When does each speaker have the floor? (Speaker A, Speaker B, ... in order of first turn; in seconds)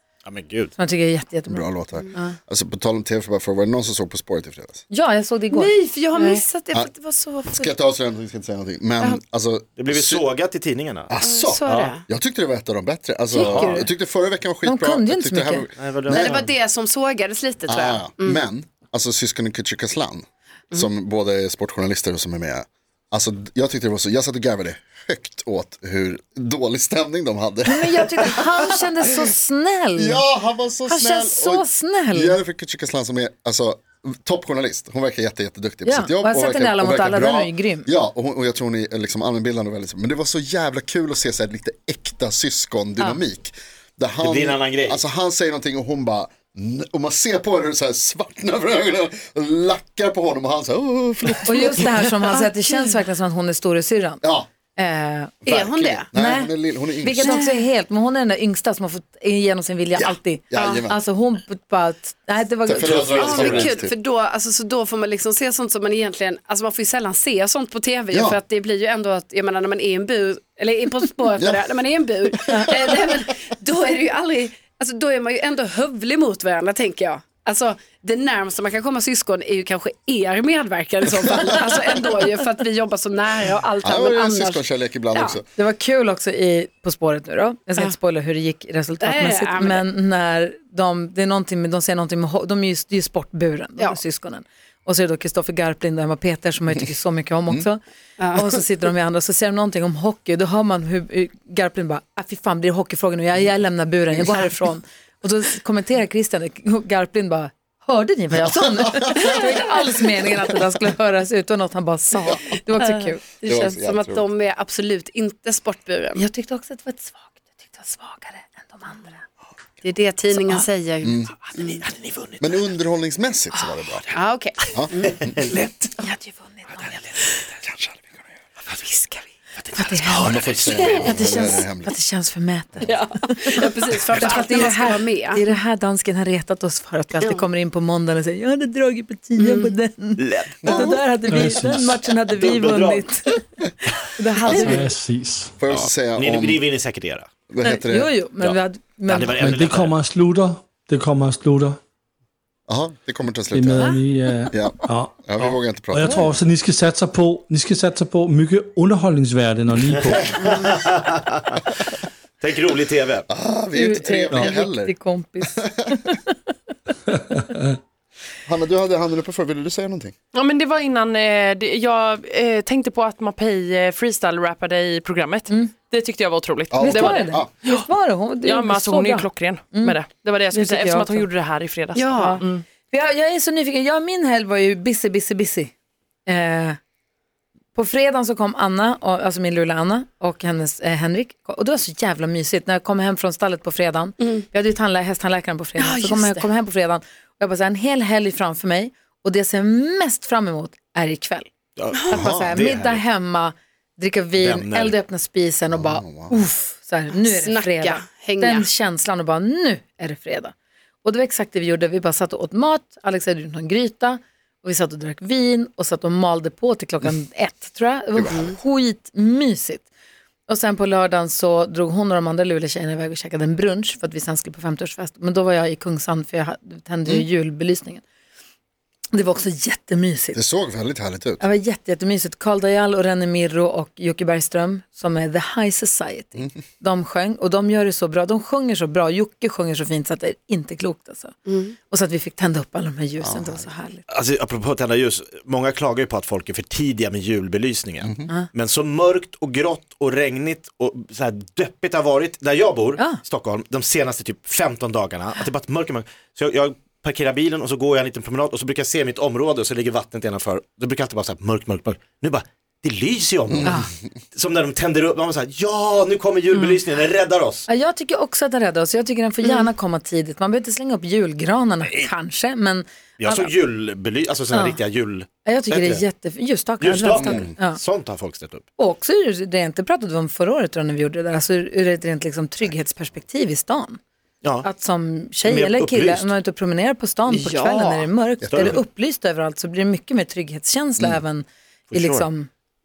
Speaker A: 0.2-0.7, 9.8-11.1, 13.4-13.8, 15.8-16.5, 44.2-45.0, 62.8-63.7, 121.5-122.7, 125.0-125.9, 129.6-131.2, 140.2-141.0, 142.4-143.1, 145.7-147.3, 148.4-149.9, 160.4-161.6, 162.4-163.3, 201.8-203.0, 204.4-205.0, 244.1-267.7, 271.8-272.1, 273.2-276.0, 276.8-278.7, 285.4-286.3, 288.5-288.8, 291.9-292.3
Speaker B: 0.8-2.4, 4.9-6.4, 13.3-13.9, 14.6-15.7, 27.7-30.2, 30.9-32.4, 35.8-37.9, 51.5-54.2, 54.8-55.4, 56.1-63.0, 85.5-97.8, 98.3-113.2, 116.2-119.2, 120.3-120.7, 126.0-126.9, 129.7-133.6, 134.1-143.4, 144.0-144.9, 147.6-149.4, 163.7-166.3, 176.8-180.0, 180.5-181.3, 182.1-185.7, 186.3-186.8, 187.7-201.5, 202.1-210.5, 211.0-219.9, 220.5-228.0, 229.1-230.4, 231.4-241.4, 241.9-244.1, 263.6-263.9, 267.7-273.5, 274.5-274.8, 275.4-277.8, 278.8-284.0, 284.6-292.5
Speaker C: 1.5-4.8, 7.5-10.2, 11.1-16.4, 17.7-28.3, 30.0-52.0, 55.4-57.4, 60.0-61.0, 62.6-63.9, 68.1-68.4, 83.8-85.5, 109.0-109.4, 113.5-114.3, 121.0-121.3, 122.4-124.1, 124.7-125.1, 130.2-131.9, 144.5-144.8, 145.6-146.7, 147.5-148.1, 152.7-154.0, 154.5-156.3, 163.3-165.0, 168.4-170.1, 176.7-177.5, 202.1-202.7, 205.7-206.4, 218.1-218.4, 230.3-231.4, 243.2-243.6, 248.0-248.3, 263.5-263.9, 277.2-277.5, 288.5-288.7
Speaker D: 5.5-7.7, 11.2-12.0, 16.1-18.4, 55.5-56.1, 57.2-57.6, 63.1-85.4, 89.0-89.8, 98.2-98.5, 112.8-116.2, 119.8-121.8, 124.1-125.1, 128.9-129.2, 130.8-131.5, 132.8-135.4, 139.4-139.7, 181.9-182.4, 195.8-196.5, 201.9-202.2, 207.2-208.7, 218.3-218.6, 241.5-241.7, 287.3-288.1
Speaker E: 141.3-142.0, 144.6-145.5, 149.3-151.8, 153.5-160.4
Speaker F: 170.3-177.9, 178.4-182.6